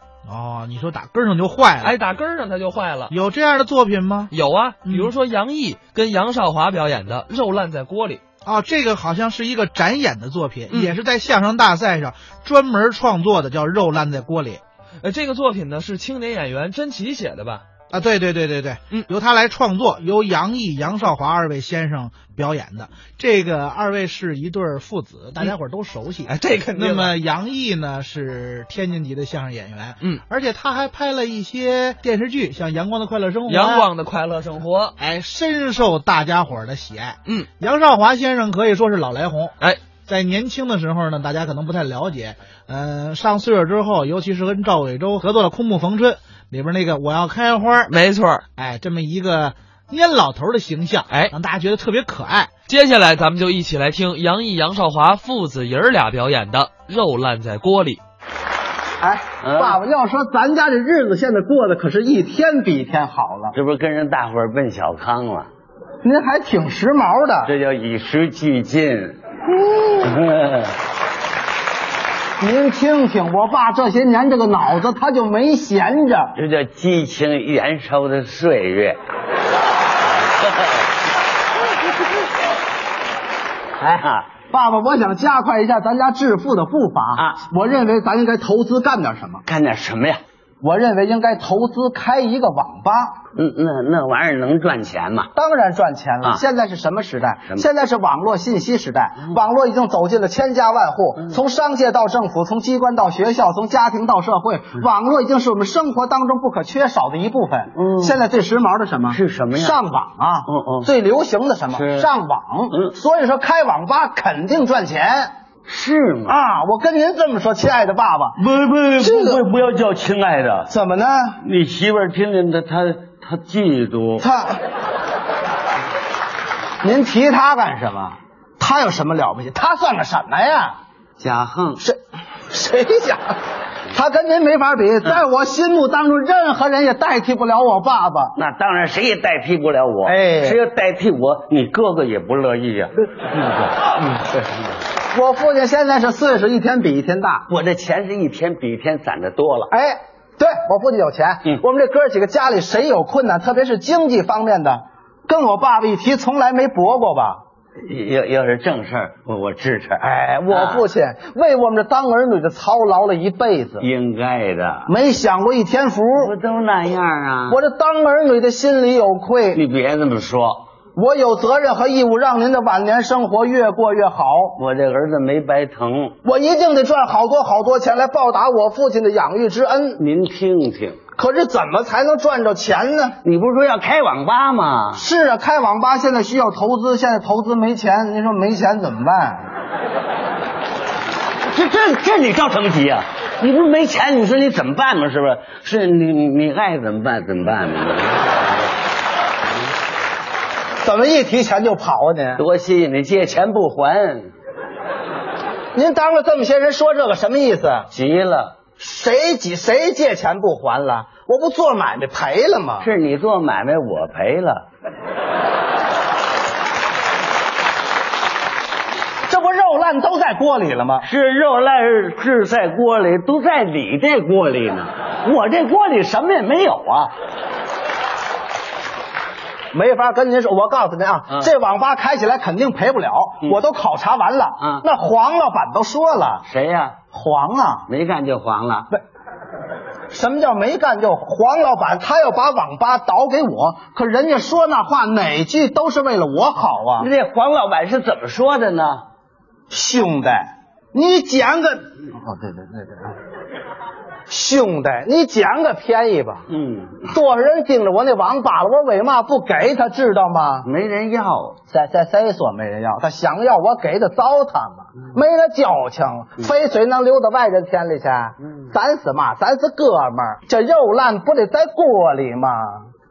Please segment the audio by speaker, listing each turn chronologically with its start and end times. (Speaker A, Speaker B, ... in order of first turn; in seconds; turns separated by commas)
Speaker A: 0.2-2.0, Speaker B: 1.8-3.1, Speaker A: 3.1-4.3, Speaker B: 4.3-8.2, Speaker A: 4.8-5.1, Speaker A: 8.4-14.6, Speaker B: 10.7-10.9, Speaker B: 15.0-17.6, Speaker A: 17.9-33.9, Speaker B: 26.3-27.2, Speaker B: 33.5-35.0, Speaker A: 35.0-39.5, Speaker A: 40.0-47.9, Speaker B: 47.9-48.4, Speaker A: 48.5-52.5, Speaker B: 51.1-51.3, Speaker B: 52.7-58.0, Speaker C: 59.0-63.5, Speaker D: 59.4-59.8, Speaker D: 63.5-65.5, Speaker C: 66.0-67.5, Speaker D: 67.4-69.2, Speaker D: 70.0-70.7, Speaker C: 72.4-76.3, Speaker D: 76.3-79.0, Speaker D: 83.8-84.3, Speaker C: 84.5-89.4, Speaker D: 89.4-90.2, Speaker C: 90.6-93.2, Speaker D: 93.3-95.3, Speaker C: 95.3-115.3, Speaker D: 107.7-108.2, Speaker D: 109.1-109.8, Speaker D: 110.5-110.9, Speaker D: 111.7-112.1, Speaker D: 115.7-116.4, Speaker C: 116.3-118.4, Speaker D: 118.4-120.7, Speaker C: 119.0-119.5, Speaker C: 120.7-121.4, Speaker D: 121.4-124.2, Speaker C: 124.2-124.6, Speaker C: 126.8-130.7, Speaker D: 131.2-131.8, Speaker C: 132.5-133.4, Speaker C: 133.9-138.3, Speaker D: 138.3-143.6, Speaker C: 140.1-140.6, Speaker C: 145.1-147.4, Speaker D: 147.5-149.7, Speaker C: 149.7-157.4, Speaker D: 157.8-160.8, Speaker C: 160.0-163.8, Speaker D: 163.8-164.9, Speaker C: 164.9-166.3, Speaker D: 166.1-167.6, Speaker C: 167.5-169.6, Speaker D: 169.5-170.6, Speaker C: 170.9-174.6, Speaker D: 174.6-176.1, Speaker C: 176.2-180.0, Speaker D: 180.0-181.0, Speaker C: 181.2-183.2, Speaker D: 183.2-185.0, Speaker C: 184.9-189.4, Speaker D: 191.5-198.4, Speaker C: 200.8-202.4, Speaker D: 202.4-204.3, Speaker C: 205.7-207.9, Speaker D: 207.9-208.6, Speaker C: 208.8-212.9, Speaker D: 212.8-214.7, Speaker C: 219.3-221.1, Speaker D: 221.0-227.1, Speaker C: 229.7-236.4, Speaker D: 234.6-234.8, Speaker D: 236.4-236.9, Speaker C: 237.1-237.8, Speaker D: 237.9-238.9, Speaker C: 240.1-247.1, Speaker D: 247.0-249.0, Speaker C: 249.7-253.1, Speaker C: 254.3-256.4, Speaker D: 256.5-257.1, Speaker C: 257.1-260.7, Speaker D: 260.6-261.6, Speaker C: 261.7-272.9